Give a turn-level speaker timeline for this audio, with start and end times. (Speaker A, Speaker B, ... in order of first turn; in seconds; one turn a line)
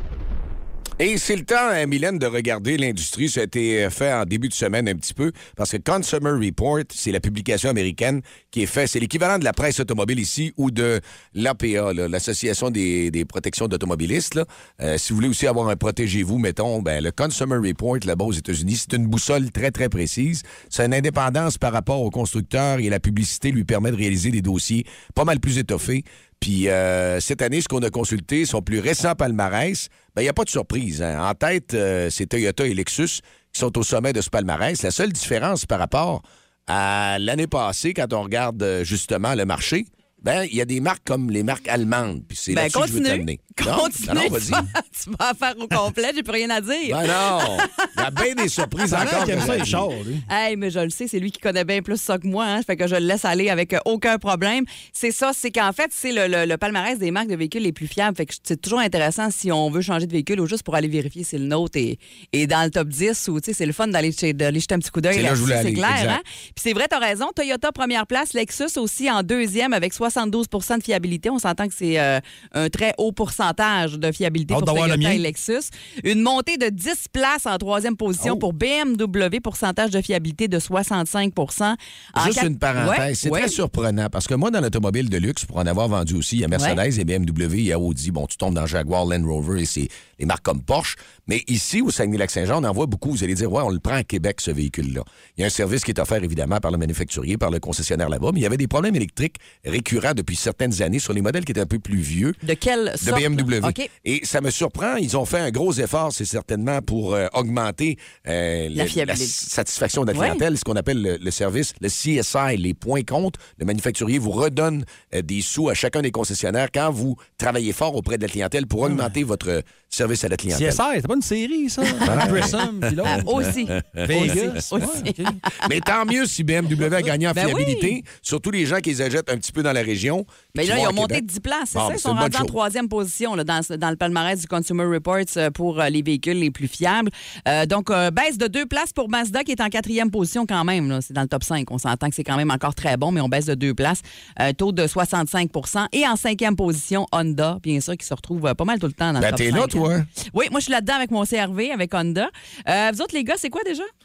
Speaker A: 1.0-44.7
Speaker B: 42.5-47.9
Speaker A: 46.9-49.8
Speaker B: 48.9-49.7
Speaker C: 48.9-50.3
Speaker B: 50.3-83.6
Speaker A: 65.1-66.2
Speaker C: 74.5-75.2
Speaker A: 78.2-78.4
Speaker A: 82.2-102.4
Speaker B: 86.5-86.8
Speaker B: 102.4-103.9
Speaker A: 103.0-120.8
Speaker B: 108.7-109.4
Speaker B: 110.1-110.4
Speaker C: 118.8-119.1
Speaker C: 120.5-125.4
Speaker A: 122.0-125.0
Speaker B: 123.1-125.7
Speaker A: 125.5-131.2
Speaker C: 126.8-127.1
Speaker B: 127.3-128.0
Speaker B: 130.5-153.9
Speaker A: 131.7-132.5
Speaker A: 149.2-150.1